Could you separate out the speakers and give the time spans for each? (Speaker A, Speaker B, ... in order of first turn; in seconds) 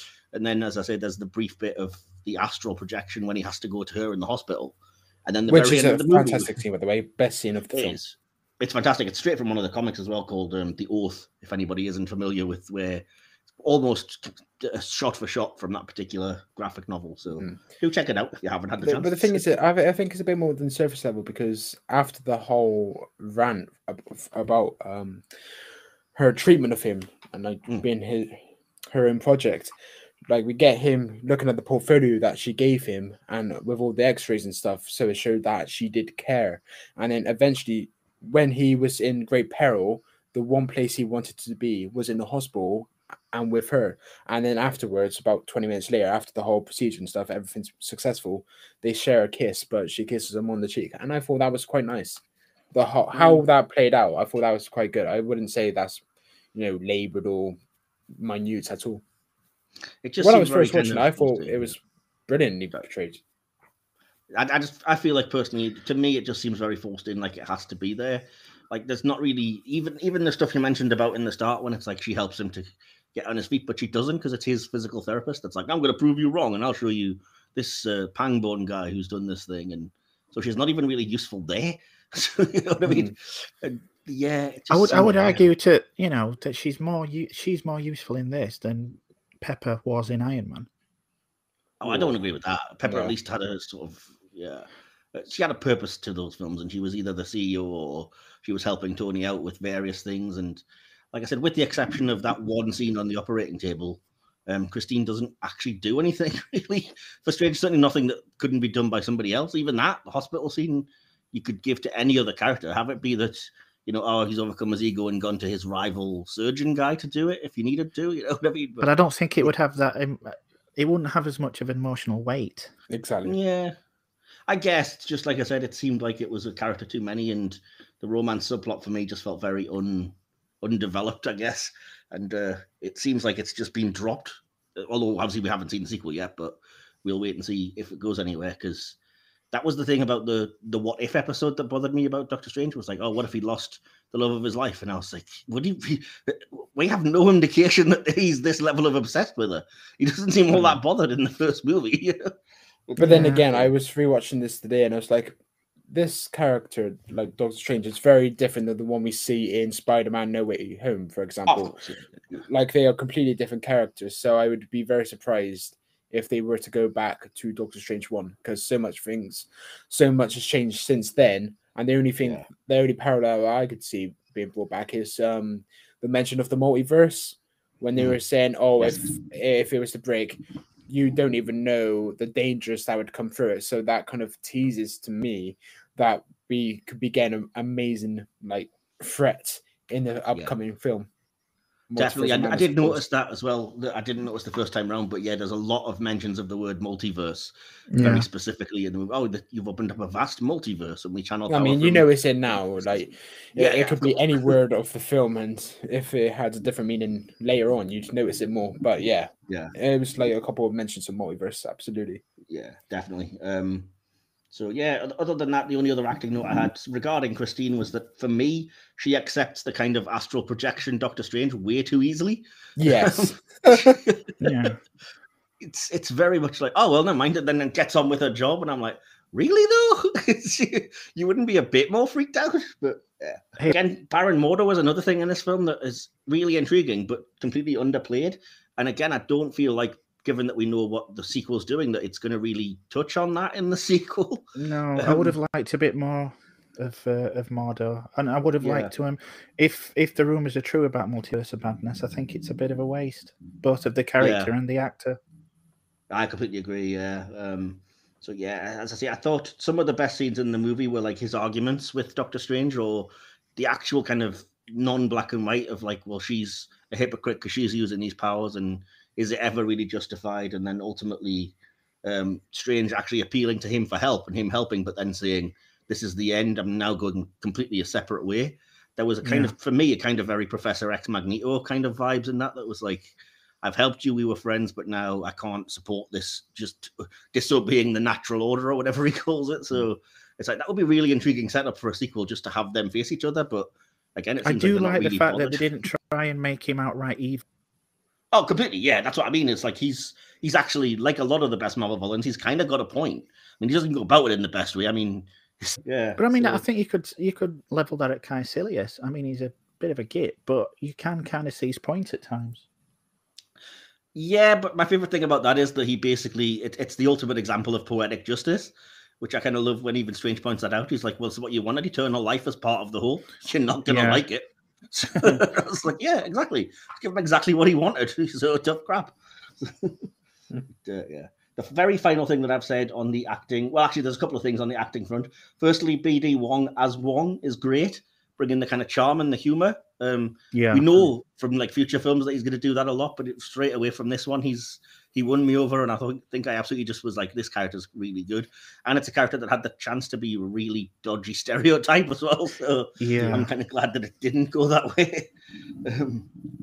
Speaker A: 0.3-6.6, 7.7-13.0, 13.6-19.4, 53.1-53.4, 60.0-61.7, 64.3-85.4, 91.8-118.9, 123.2-123.8, 124.5-139.0, 139.5-152.3, 152.9-153.7, 161.5-162.4, 192.0-202.1, 203.6-204.5, 209.5-209.7, 212.5-213.9, 214.5-224.5, 225.6-245.3, 248.6-248.9, 254.2-254.5, 256.1-295.7, 298.3-306.6, 314.1-330.0, 330.8-355.3, 355.8-356.3
Speaker B: 5.5-8.0, 18.8-25.2, 26.1-29.7, 30.3-52.2, 52.7-56.0, 56.5-57.6, 58.2-59.0, 60.2-63.2, 82.9-83.1, 91.9-92.1, 122.9-123.4, 150.5-150.8, 153.0-155.4, 155.9-161.8, 162.4-191.1, 191.9-193.0, 201.5-212.2, 222.8-224.0
Speaker C: 84.7-90.7, 118.8-122.7, 153.0-153.4, 197.9-198.3, 224.4-224.8, 244.6-255.2, 279.2-279.5, 294.4-297.4, 306.2-312.6, 323.9-324.2, 340.5-341.1, 353.0-353.5